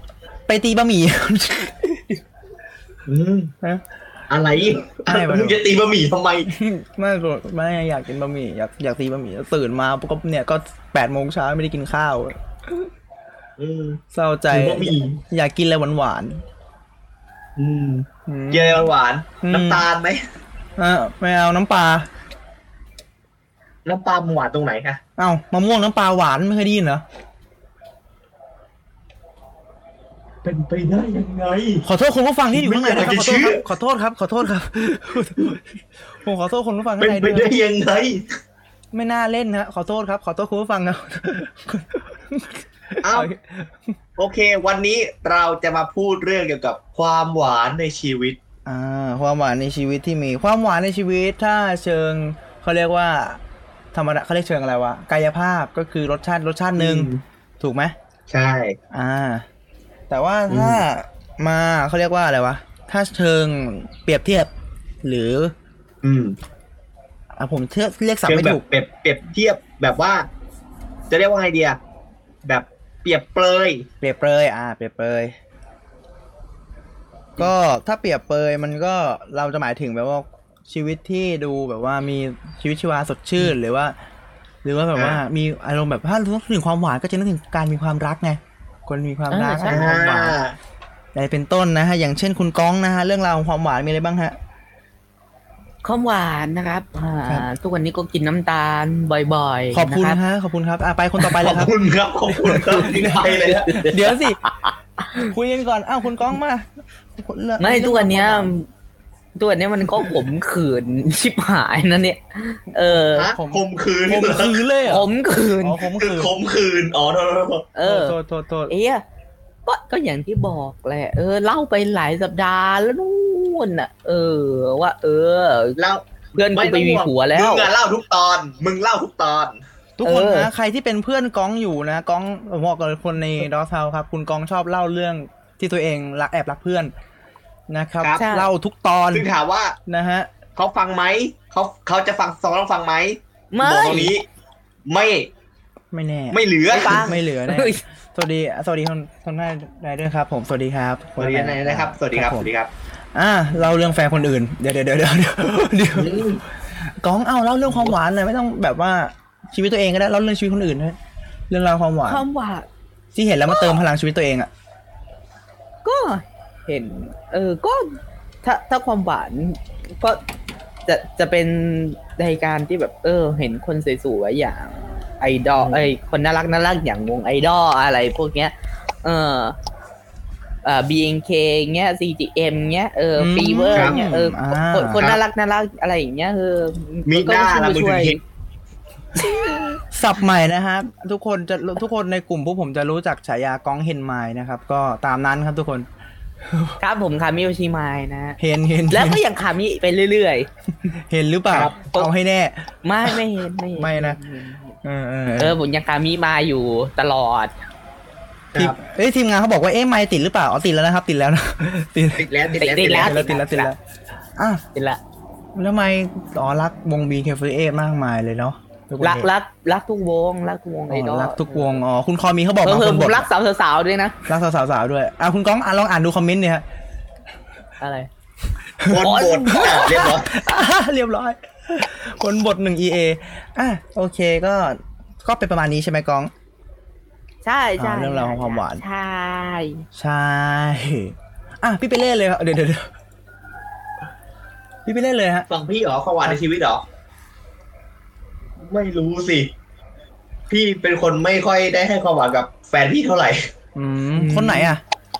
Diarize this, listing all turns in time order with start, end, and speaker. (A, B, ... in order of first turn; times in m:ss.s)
0:00.5-0:02.2 A
0:03.1-0:03.5 B
0:04.3-0:06.5 B
0:05.1-0:05.6 A
0:06.5-0:12.9 A
0:13.6-0:14.0 B
0:14.1-0:16.4 A
0:14.5-0:15.2 B
0:17.6-0:20.2 B
0:18.2-0:18.9 A
0:19.4-0:19.8 A
0:20.8-0:22.1 A
0:23.8-0:25.0 B
0:25.2-0:27.0 A
0:30.4-0:31.8 B
0:31.8-0:37.5 A
0:32.5-0:33.6 B
0:37.0-0:38.2 B
0:38.9-0:43.9 A
0:43.0-0:43.3 B
0:44.2-0:48.4 B
0:48.7-0:53.4 A
0:53.9-0:58.0 A
0:56.8-0:57.2 B
0:58.3-0:58.8 B
0:58.9-0:59.5 A
1:00.1-1:04.5 A
1:00.5-1:00.8 B
1:05.0-1:05.5 A
1:06.0-1:06.4 B
1:07.4-1:08.6 A
1:08.2-1:10.3 B
1:11.1-1:11.8 B
1:12.4-1:13.8 B
1:14.0-1:15.3 A
1:17.4-1:24.0 A
1:24.6-1:30.4 A
1:25.0-1:25.2 B
1:29.3-1:29.8 C
1:29.7-1:30.6 B
1:31.1-1:34.4 A
1:35.8-1:40.2 C
1:39.7-1:41.7 A
1:41.2-1:43.8 B
1:42.4-1:44.4 A
1:43.2-1:45.3 C
1:45.2-1:48.5 A
1:47.6-1:48.7 C
1:49.4-1:53.3 C
1:52.7-1:55.1 A
1:53.2-1:54.6 B
1:54.8-1:55.8 C
1:55.6-1:56.3 A
1:56.0-1:57.7 B
1:57.7-1:58.2 C
1:57.8-1:58.7 A
1:58.7-1:59.0 C
1:59.7-2:05.8 C
2:05.8-2:09.6 B
2:06.3-2:07.7 C
2:10.0-2:16.9 A
2:10.0-2:10.5 C
2:17.7-2:19.3 A
2:18.2-2:18.5 C
2:19.1-2:19.8 B
2:19.9-2:20.3 A
2:20.6-2:24.2 B
2:23.5-2:24.1 C
2:24.8-2:25.3 B
2:25.9-2:32.5 A
2:26.3-2:27.0 B
2:26.7-2:27.8 C
2:31.2-2:32.7 B
2:33.1-2:41.0 A
2:36.0-2:36.4 B
2:37.7-2:37.9 B
2:41.5-2:42.2 A
2:42.1-2:42.7 C
2:43.1-2:44.5 A
2:43.5-2:43.8 C
2:45.8-2:50.2 C
2:50.8-2:59.6 C
2:55.6-2:55.9 B
3:00.6-3:08.2 C
3:03.2-3:05.0 A
3:03.7-3:04.0 B
3:07.1-3:08.2 B
3:09.2-3:09.8 C
3:09.9-3:15.9 A
3:16.5-3:16.8 A
3:16.8-3:18.4 C
3:18.4-3:19.2 A
3:18.9-3:20.5 C
3:21.0-3:23.2 A
3:21.5-3:21.8 B
3:22.8-3:24.8 C
3:23.8-3:24.2 A
3:24.8-3:25.6 A
3:25.4-3:27.5 C
3:28.5-3:28.8 B
3:28.6-3:33.8 A
3:32.2-3:33.3 B
3:32.6-3:33.7 C
3:34.4-3:34.6 A
3:34.7-3:35.0 C
3:35.6-3:39.3 A
3:39.0-3:41.8 C
3:40.9-3:43.3 A
3:42.6-3:44.2 C
3:44.3-3:46.6 A
3:47.8-3:48.1 C
3:48.8-3:56.3 A
3:48.9-3:50.3 B
3:48.9-3:50.0 C
3:57.4-3:59.8 C
3:57.8-3:58.8 A
4:00.0-4:02.9 A
4:04.8-4:05.5 A
4:05.5-4:06.8 B
4:08.7-4:09.5 B
4:10.5-4:13.5 B
4:13.7-4:14.8 A
4:14.1-4:14.8 C